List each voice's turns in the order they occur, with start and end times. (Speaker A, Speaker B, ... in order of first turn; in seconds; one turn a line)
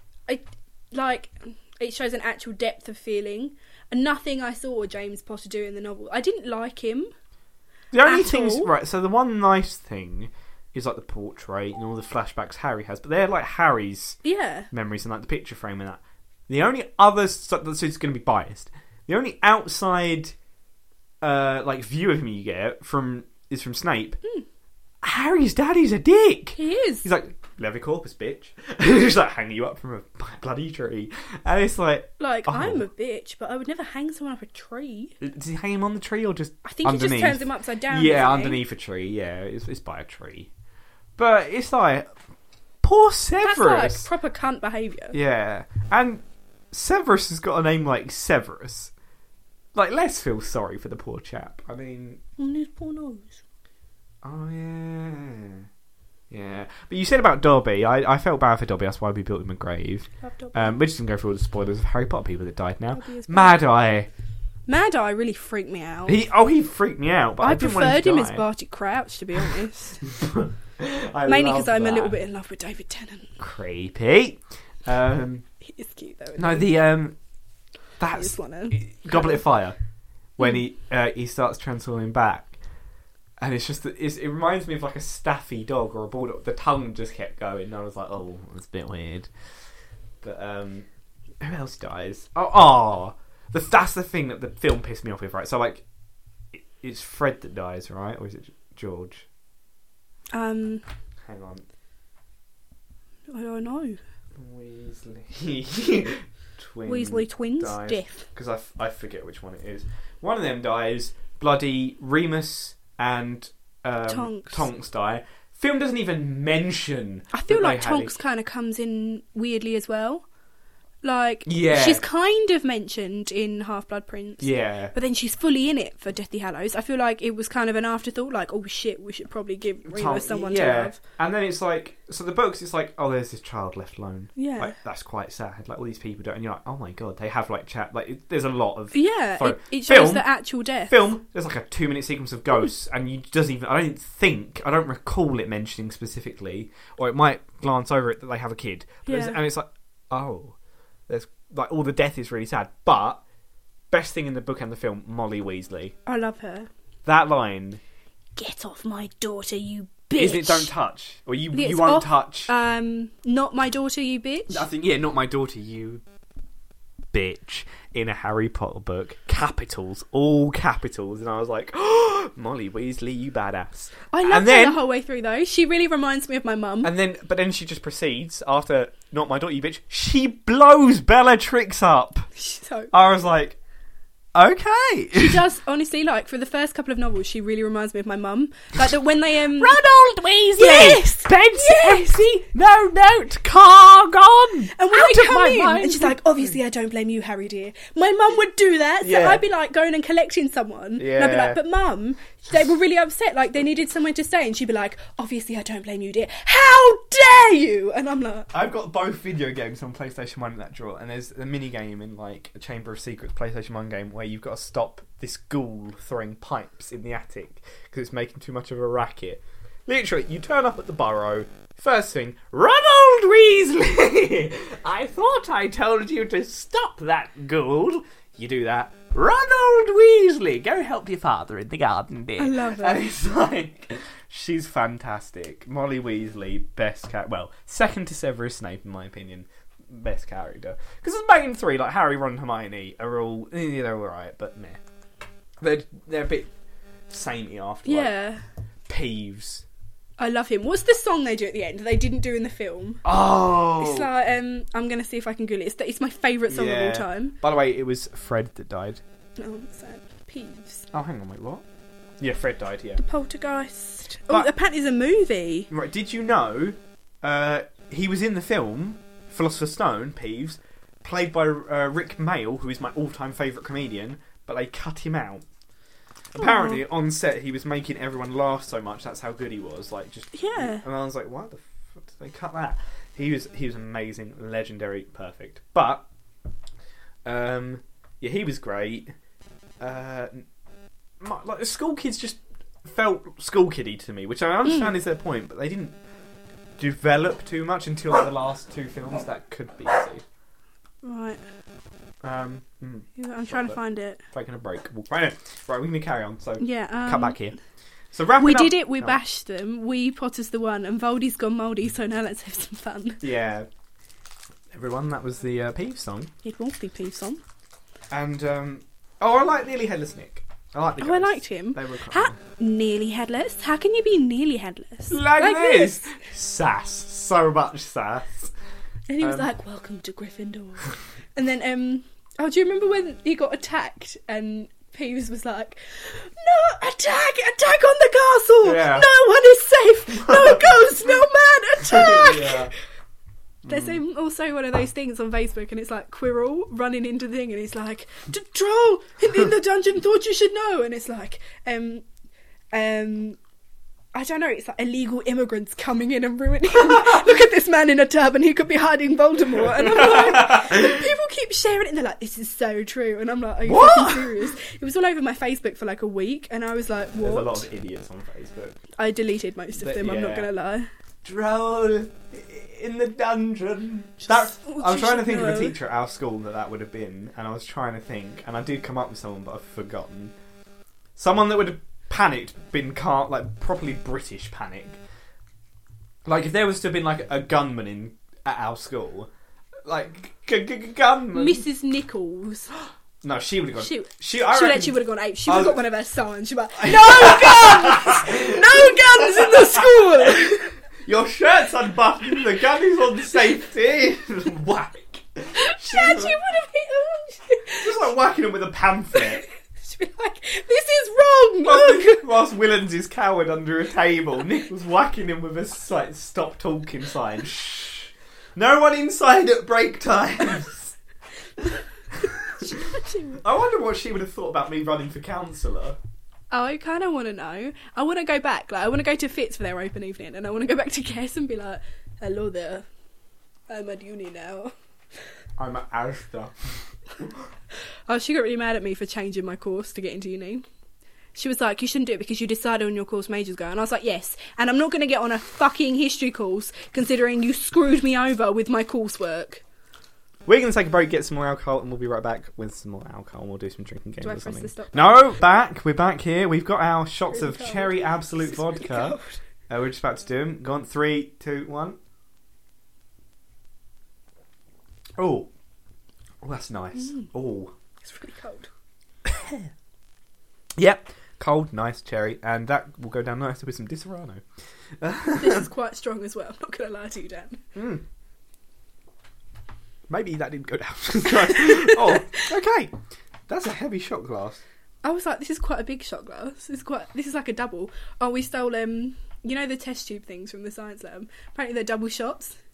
Speaker A: 0.3-7.1
Speaker B: 7.9-14.2
Speaker A: 8.0-8.7
Speaker A: 14.2-14.7
Speaker B: 14.7-20.3
Speaker B: 21.2-24.2
Speaker B: 25.0-32.8
Speaker A: 26.6-27.1
Speaker A: 32.2-35.2
Speaker B: 35.2-40.5
Speaker A: 36.6-38.6
Speaker B: 41.2-42.1
Speaker B: 42.8-44.1
Speaker A: 43.4-45.1
Speaker B: 45.1-48.9
Speaker B: 49.7-52.2
Speaker A: 52.4-53.4
Speaker B: 54.2-55.6
Speaker B: 56.3-64.1
Speaker A: 60.2-60.8
Speaker A: 62.9-63.6
Speaker A: 64.7-66.2
Speaker B: 66.0-68.4
Speaker A: 67.4-70.0
Speaker B: 70.1-72.2
Speaker A: 71.2-73.3
Speaker B: 73.4-75.5
Speaker A: 75.6-76.7
Speaker B: 76.4-77.2
Speaker B: 78.0-79.8
Speaker A: 78.1-79.4
Speaker B: 80.4-82.5
Speaker B: 83.4-89.3
Speaker B: 90.2-90.9
Speaker B: 91.4-95.8
Speaker B: 96.5-99.2
Speaker A: 100.3-100.8
Speaker B: 101.3-101.6
Speaker A: 103.3-104.0
Speaker B: 104.3-118.1
Speaker A: 106.8-108.2
Speaker A: 114.1-114.7
Speaker A: 117.3-120.2
Speaker A: 121.0-131.0
Speaker B: 121.5-122.0
Speaker B: 124.4-124.9
Speaker B: 129.8-140.2
Speaker A: 134.3-134.7
Speaker A: 138.9-140.9
Speaker B: 140.9-150.6
Speaker A: 149.1-149.4
Speaker B: 151.1-153.2
Speaker B: 153.9-155.9
Speaker A: 156.1-156.7
Speaker B: 157.0-157.8
Speaker A: 158.3-160.7
Speaker B: 160.1-162.5
Speaker A: 161.5-164.7
Speaker B: 164.5-166.0
Speaker B: 167.1-174.8
Speaker A: 174.1-176.9
Speaker B: 176.8-182.3
Speaker A: 182.3-182.9
Speaker B: 182.9-183.6
Speaker B: 184.3-185.4
Speaker A: 185.1-189.8
Speaker B: 189.5-196.2
Speaker A: 190.6-192.4
Speaker A: 194.7-208.5
Speaker B: 199.0-199.4
Speaker B: 201.0-201.6
Speaker B: 208.5-244.8
Speaker A: 232.4-233.1
Speaker B: 245.6-246.5
Speaker B: 247.1-248.1
Speaker A: 247.8-248.4
Speaker B: 248.9-249.6
Speaker A: 250.2-253.0
Speaker B: 253.0-254.1
Speaker A: 253.8-257.4
Speaker B: 256.5-259.0
Speaker A: 259.4-260.9
Speaker B: 260.9-261.6
Speaker B: 262.2-263.0
Speaker A: 263.0-265.7
Speaker B: 265.7-275.4
Speaker B: 276.3-286.1
Speaker A: 276.4-276.8
Speaker A: 280.3-280.8
Speaker B: 287.2-289.1
Speaker B: 289.8-290.4
Speaker B: 291.2-295.9
Speaker A: 294.6-294.9
Speaker B: 296.8-300.2
Speaker A: 301.0-301.4
Speaker B: 302.2-303.8
Speaker A: 303.2-304.2
Speaker B: 304.3-307.6
Speaker A: 306.6-307.5
Speaker B: 308.1-309.2
Speaker A: 308.4-313.2
Speaker B: 313.2-313.7
Speaker B: 314.7-316.3
Speaker A: 316.4-317.4
Speaker B: 318.1-322.4
Speaker A: 321.0-326.1
Speaker B: 325.1-328.5
Speaker A: 329.1-342.7
Speaker B: 329.2-329.5
Speaker B: 338.6-339.1
Speaker B: 340.1-340.8
Speaker B: 341.8-342.7
Speaker B: 343.6-344.0
Speaker A: 343.7-352.0
Speaker A: 352.7-353.4
Speaker A: 354.1-367.6
Speaker B: 360.0-360.8
Speaker B: 363.6-364.5
Speaker B: 367.2-368.8
Speaker A: 368.9-370.9
Speaker B: 369.8-370.5
Speaker B: 371.2-380.3
Speaker A: 374.3-375.8
Speaker B: 381.2-385.0
Speaker B: 386.2-389.3
Speaker B: 389.9-391.6
Speaker A: 391.3-392.7
Speaker B: 393.2-395.8
Speaker A: 393.8-400.7
Speaker B: 396.8-406.4
Speaker A: 405.6-408.1
Speaker B: 407.8-409.4
Speaker A: 409.1-412.2
Speaker B: 411.6-420.9
Speaker B: 422.2-426.0
Speaker A: 422.6-423.4
Speaker A: 426.5-432.9
Speaker A: 433.7-434.7
Speaker B: 435.6-437.3
Speaker A: 438.1-440.6
Speaker A: 441.3-449.6
Speaker B: 450.4-462.0
Speaker A: 454.2-455.4
Speaker A: 457.3-459.4
Speaker B: 465.2-465.5
Speaker B: 466.4-467.7
Speaker A: 467.0-467.3
Speaker A: 468.0-468.7
Speaker B: 469.2-469.7
Speaker B: 470.8-474.4
Speaker B: 475.0-475.7
Speaker A: 475.3-477.6
Speaker B: 477.7-478.0
Speaker B: 480.1-482.9
Speaker A: 481.2-482.4
Speaker B: 483.5-484.6
Speaker A: 485.0-492.6